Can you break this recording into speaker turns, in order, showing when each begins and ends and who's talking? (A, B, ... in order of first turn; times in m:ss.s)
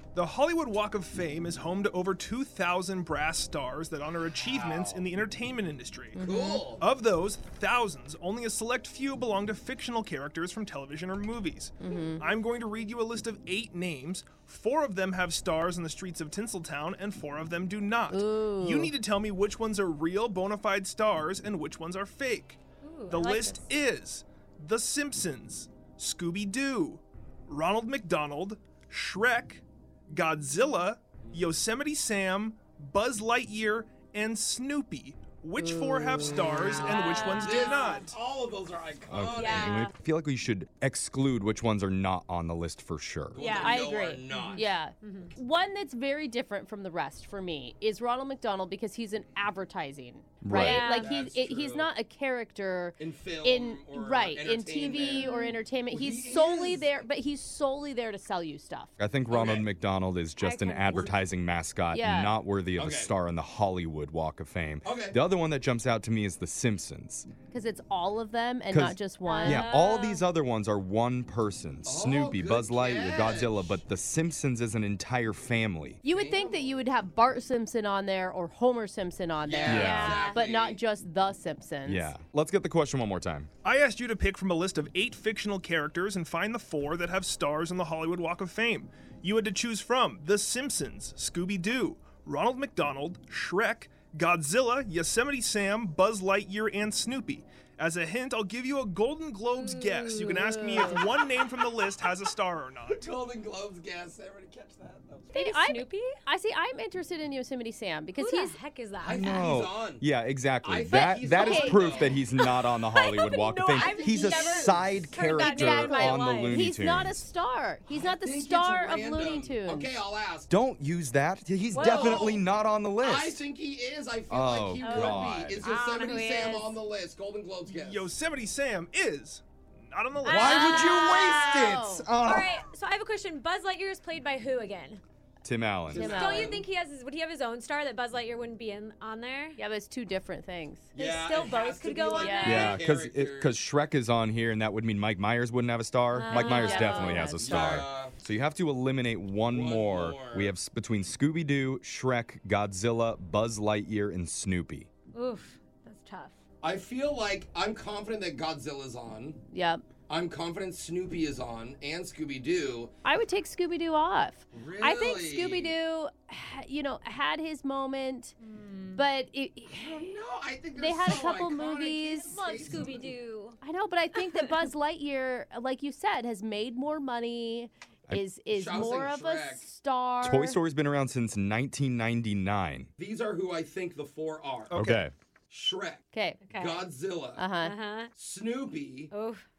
0:00.1-0:06.2 A
0:04.4-0:05.1 B
0:06.1-0:06.7 C
0:06.2-0:06.9 B
0:06.8-0:38.2 A
0:11.8-0:12.2 C
0:18.1-0:18.9 C
0:22.8-0:23.6 D
0:35.6-0:36.7 C
0:36.6-0:37.8 D
0:36.6-0:39.9 B
0:39.1-0:43.4 E
0:39.3-0:39.9 D
0:43.3-0:44.7 B
0:43.4-0:45.3 D
0:43.4-0:58.9 C
0:50.4-0:50.8 E
0:50.5-0:51.1 D
0:50.8-0:51.9 B
0:53.0-0:57.0 B
0:55.2-0:55.6 D
0:59.0-1:07.3 E
0:59.3-0:59.7 B
1:00.4-1:00.9 D
1:00.9-1:01.2 B
1:01.9-1:02.4 C
1:02.8-1:03.1 B
1:04.8-1:05.2 B
1:07.5-1:09.7 C
1:08.7-1:16.0 E
1:09.2-1:10.2 D
1:11.8-1:13.8 B
1:16.0-1:22.1 C
1:16.0-1:16.7 B
1:19.4-1:20.8 B
1:19.7-1:20.4 D
1:19.7-1:20.2 E
1:21.8-1:23.5 E
1:23.6-1:43.0 A
1:39.5-1:40.4 D
1:40.5-1:41.0 C
1:42.9-1:45.3 B
1:45.3-1:46.1 D
1:45.3-1:48.6 C
1:48.2-1:49.5 D
1:49.0-1:50.0 B
1:49.1-1:57.2 E
1:50.6-1:52.2 B
1:50.8-1:52.1 C
1:52.0-1:56.7 D
1:53.8-1:54.8 B
1:53.8-1:54.6 C
1:55.2-1:59.9 C
1:57.9-2:00.5 B
2:00.5-2:03.4 E
2:01.7-2:02.3 D
2:01.8-2:02.4 B
2:03.0-2:08.1 B
2:04.3-2:05.7 E
2:04.8-2:06.8 D
2:07.7-2:10.5 A
2:10.2-2:12.5 B
2:10.2-2:15.0 D
2:11.6-2:12.1 C
2:15.4-2:16.1 E
2:15.9-2:16.6 B
2:15.9-2:16.5 C
2:16.0-2:19.6 D
2:19.6-2:20.9 C
2:20.9-2:23.6 B
2:20.9-2:22.8 D
2:22.2-2:22.7 C
2:22.4-2:34.9 E
2:26.1-2:27.7 D
2:26.4-2:27.8 C
2:27.4-2:28.2 B
2:29.4-2:30.5 B
2:35.1-2:36.3 D
2:36.6-2:39.4 B
2:39.5-2:39.8 C
2:40.1-2:42.9 B
2:43.0-2:48.4 C
2:44.5-2:45.7 B
2:48.4-2:49.0 D
2:48.9-2:50.1 C
2:49.7-2:53.1 B
2:50.8-2:52.9 C
2:52.5-2:53.6 D
2:53.6-3:00.6 C
2:58.5-2:59.6 B
3:00.2-3:02.9 E
3:03.0-3:04.8 B
3:04.7-3:05.0 A
3:04.7-3:05.1 E
3:05.5-3:07.5 B
3:06.1-3:06.4 C
3:06.4-3:06.9 D
3:07.4-3:07.7 C
3:07.6-3:08.1 D
3:08.1-3:09.1 B
3:09.1-3:09.4 D